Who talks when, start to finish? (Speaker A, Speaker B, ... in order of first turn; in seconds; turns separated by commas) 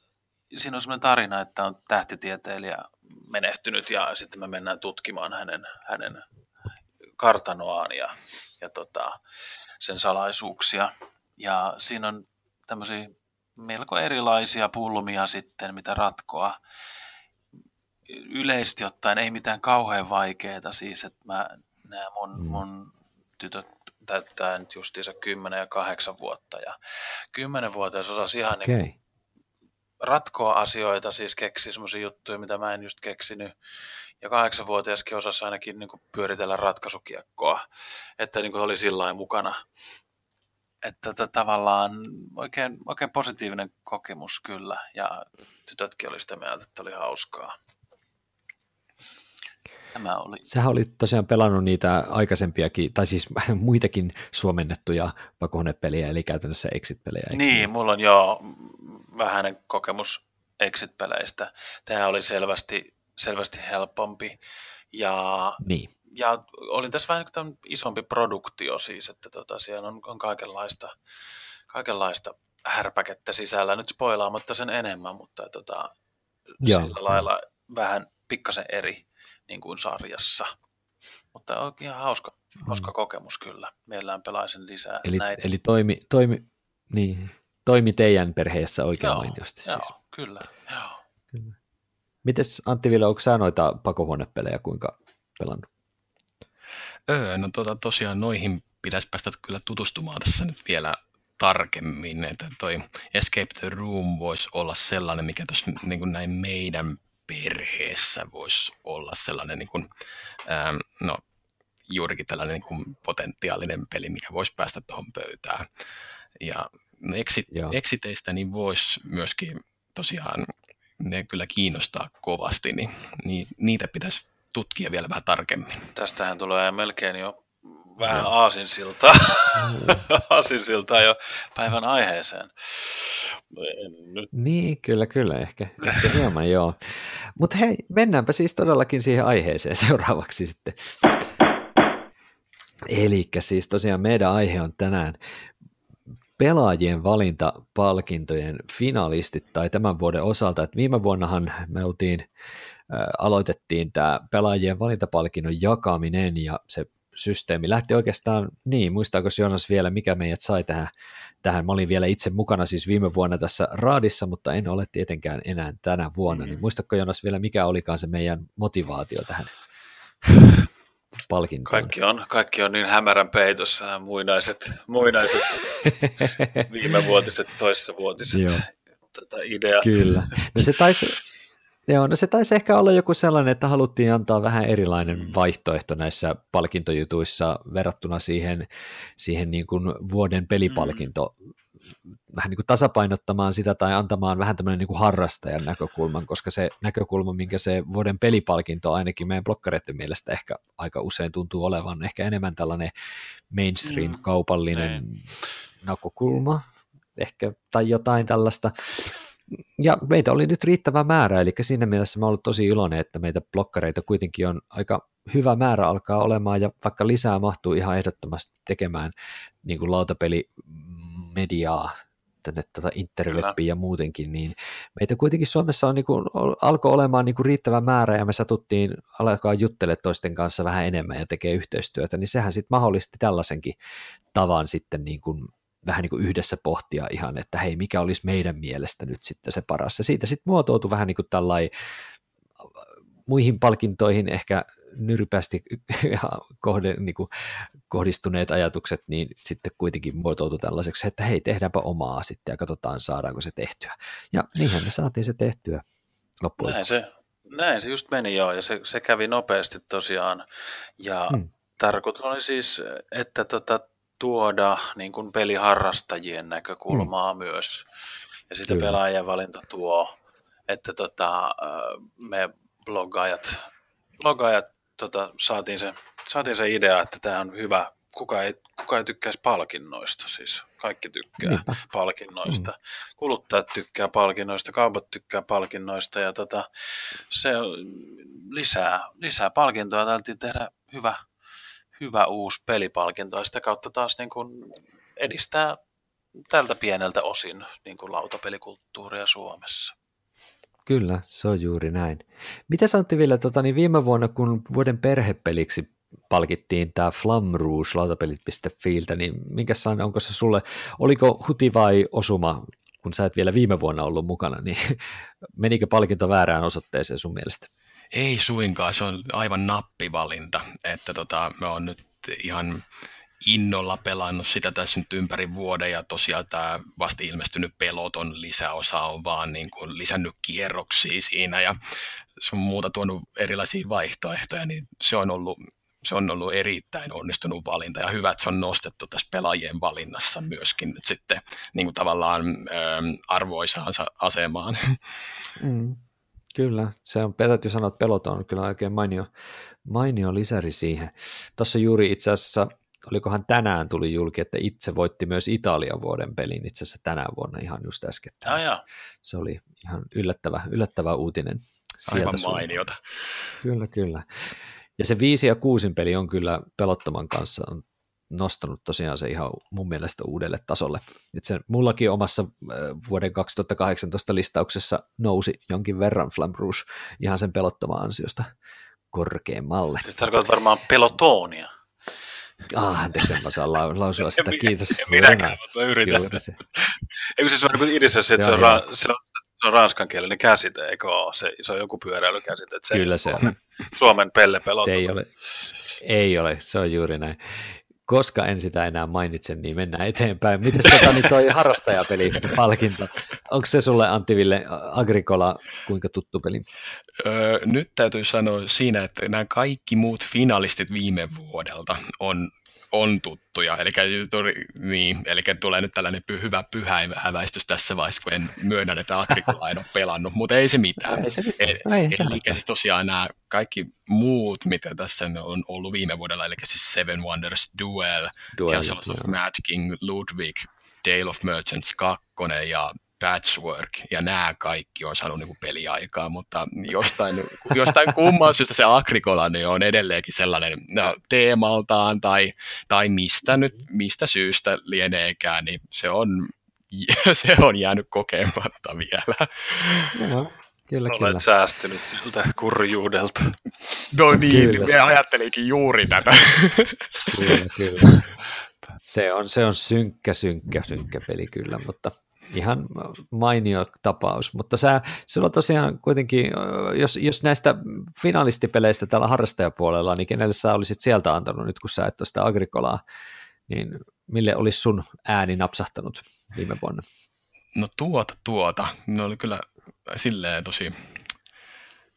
Speaker A: 0.5-6.2, Speaker A: 7.2-9.2, Speaker A: 9.8-16.6, Speaker A: 18.1-26.7, Speaker B: 22.4-22.6, Speaker A: 27.3-28.7, Speaker B: 28.6-28.9, Speaker A: 30.0-33.5, Speaker A: 34.2-37.6, Speaker A: 38.2-39.6, Speaker A: 40.8-47.5, Speaker A: 49.9-50.5, Speaker B: 50.5-57.7, Speaker A: 57.3-64.3, Speaker A: 64.9-70.9, Speaker B: 65.6-65.9, Speaker A: 71.7-75.9, Speaker A: 76.6-80.5, Speaker B: 76.6-77.2, Speaker A: 81.3-85.4, Speaker B: 85.0-89.9, Speaker A: 89.0-91.0, Speaker B: 92.2-95.7, Speaker C: 97.1-109.9, Speaker C: 110.5-111.2, Speaker C: 111.9-115.7, Speaker C: 116.4-125.9, Speaker B: 117.5-117.8, Speaker A: 125.9-134.3, Speaker B: 129.6-130.0, Speaker B: 134.3-141.3, Speaker B: 142.9-145.2, Speaker B: 146.4-152.2, Speaker B: 152.9-160.9, Speaker B: 161.4-169.5, Speaker A: 166.3-166.6, Speaker B: 171.2-171.9, Speaker A: 171.7-175.9, Speaker B: 176.0-176.6, Speaker A: 176.6-180.9, Speaker B: 178.3-178.6, Speaker B: 179.8-181.2, Speaker B: 181.9-188.7, Speaker A: 185.1-185.3, Speaker B: 189.2-191.3, Speaker A: 190.7-191.1, Speaker B: 192.3-202.9, Speaker B: 203.5-205.3, Speaker A: 203.8-204.2, Speaker A: 204.7-205.0, Speaker B: 205.8-206.6, Speaker B: 207.2-219.1, Speaker B: 219.6-233.8, Speaker A: 223.3-223.6, Speaker B: 234.3-241.7, Speaker B: 243.3-255.8, Speaker B: 256.4-256.9, Speaker A: 256.6-260.4, Speaker A: 261.0-267.9, Speaker A: 268.5-270.1, Speaker B: 268.7-269.0, Speaker A: 270.7-273.7, Speaker A: 274.2-291.2, Speaker B: 281.4-281.8, Speaker A: 291.9-295.8, Speaker A: 296.4-299.9, Speaker B: 300.9-315.0, Speaker B: 315.6-317.7, Speaker C: 318.1-322.8, Speaker C: 323.4-331.8, Speaker C: 332.4-345.0, Speaker B: 345.6-346.0, Speaker B: 346.5-349.3, Speaker B: 349.8-358.6, Speaker A: 358.4-358.8, Speaker B: 359.2-362.8, Speaker C: 362.1-363.0, Speaker B: 363.6-364.4, Speaker B: 365.0-378.5, Speaker B: 379.1-380.1, Speaker A: 380.0-381.7, Speaker B: 382.7-386.6, Speaker A: 384.2-395.1, Speaker B: 388.4-388.8, Speaker B: 392.9-393.5, Speaker B: 394.8-395.3, Speaker B: 396.0-406.6, Speaker C: 407.2-450.1, Speaker B: 421.0-422.6, Speaker B: 428.5-429.4, Speaker B: 450.1-451.4, Speaker A: 451.1-453.6, Speaker C: 454.1-457.6, Speaker B: 454.4-455.1, Speaker B: 457.2-458.2, Speaker B: 459.0-473.0, Speaker B: 473.7-477.0, Speaker C: 477.7-481.2